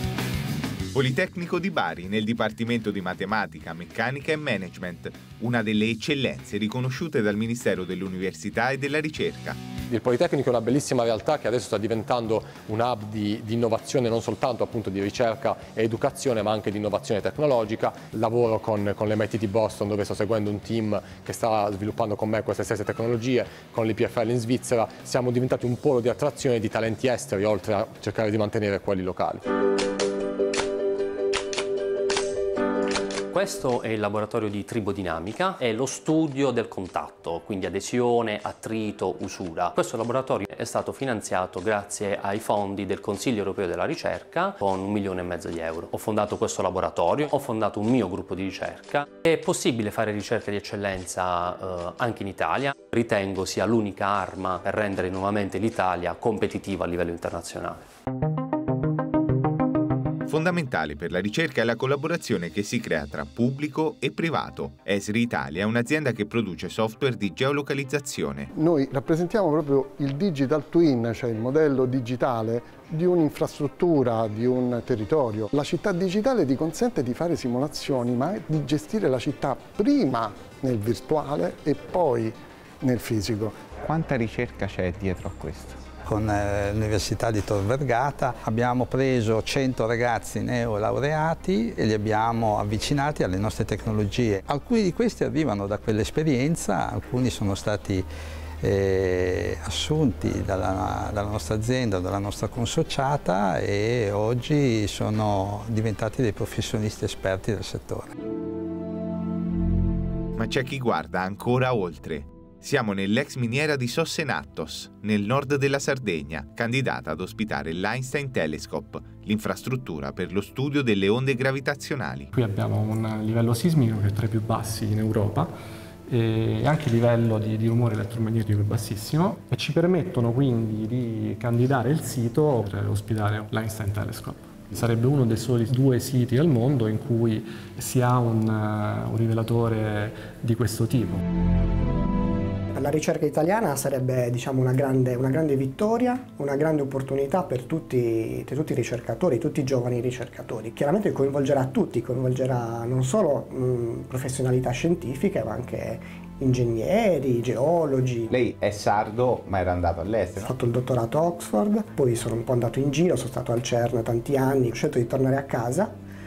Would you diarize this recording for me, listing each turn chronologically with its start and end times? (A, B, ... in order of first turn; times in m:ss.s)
0:00.9-0:09.6 A
0:09.9-0:29.4 B
0:33.3-0:57.8 C
1:00.3-1:08.5 A
1:08.5-1:23.6 D
1:23.8-1:25.8 E
1:26.0-1:38.1 F
1:38.6-1:48.1 F
1:50.4-2:02.3 A
2:02.4-2:05.5 G
2:06.1-2:21.2 G
2:22.7-2:38.3 H
2:38.3-2:40.5 E
2:38.4-2:40.5 A
2:40.4-2:46.0 H